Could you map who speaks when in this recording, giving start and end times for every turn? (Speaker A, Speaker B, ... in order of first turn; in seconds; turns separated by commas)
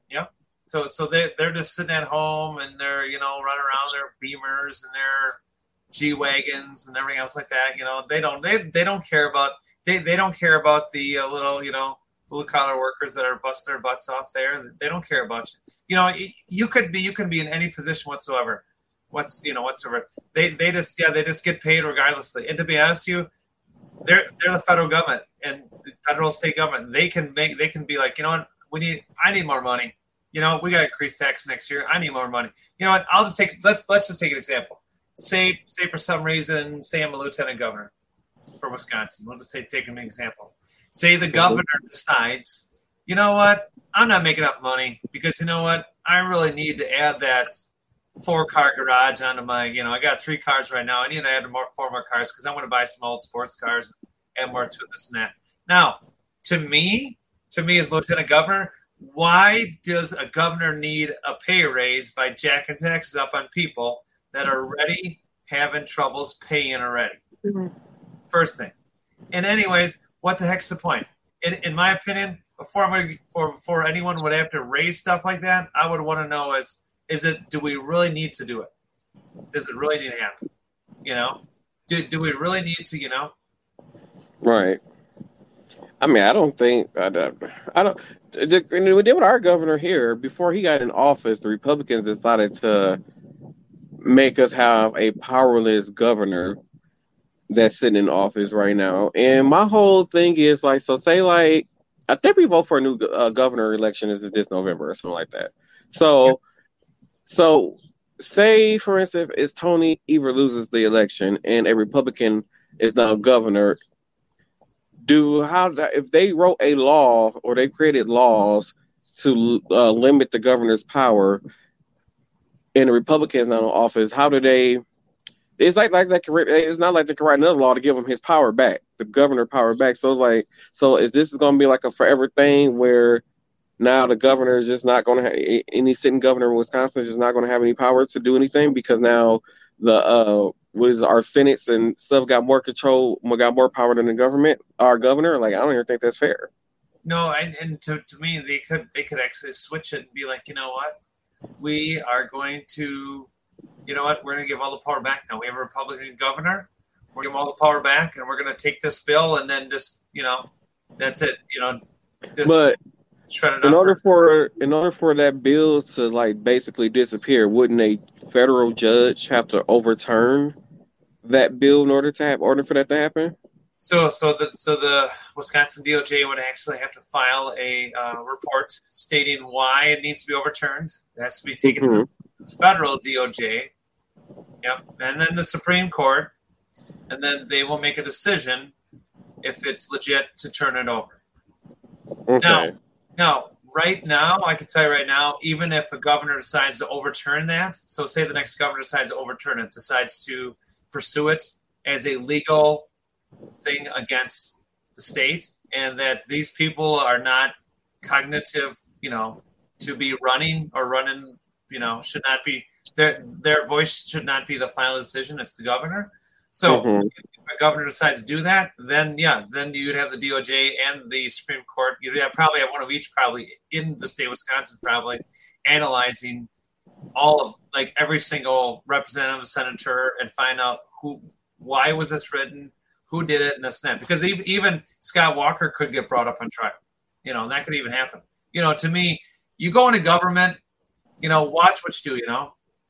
Speaker A: 0.1-5.4, Speaker A: 5.9-23.3, Speaker A: 24.0-37.9, Speaker A: 38.6-47.6, Speaker B: 41.3-41.6, Speaker A: 48.2-67.2, Speaker B: 67.5-67.7, Speaker A: 68.3-68.7, Speaker A: 69.3-78.7, Speaker A: 79.5-80.4, Speaker A: 81.0-83.3, Speaker B: 84.4-84.8, Speaker B: 86.0-93.0, Speaker B: 94.0-96.6, Speaker B: 97.5-106.4, Speaker B: 107.3-113.8, Speaker B: 115.0-121.4, Speaker B: 122.8-124.8, Speaker B: 125.6-133.2, Speaker B: 133.8-146.5, Speaker A: 147.1-150.9, Speaker A: 151.6-153.3, Speaker A: 153.9-160.5, Speaker A: 161.0-161.8, Speaker A: 162.4-162.6, Speaker B: 162.4-162.8, Speaker A: 163.3-164.0, Speaker B: 163.6-170.6, Speaker B: 171.2-173.3, Speaker A: 173.8-183.7, Speaker B: 181.6-182.1, Speaker A: 184.6-186.3, Speaker A: 187.1-188.7, Speaker A: 189.4-191.2, Speaker B: 192.3-192.7, Speaker A: 192.4-202.9, Speaker A: 203.6-226.5, Speaker B: 216.7-217.1, Speaker A: 227.2-240.6, Speaker A: 241.2-242.5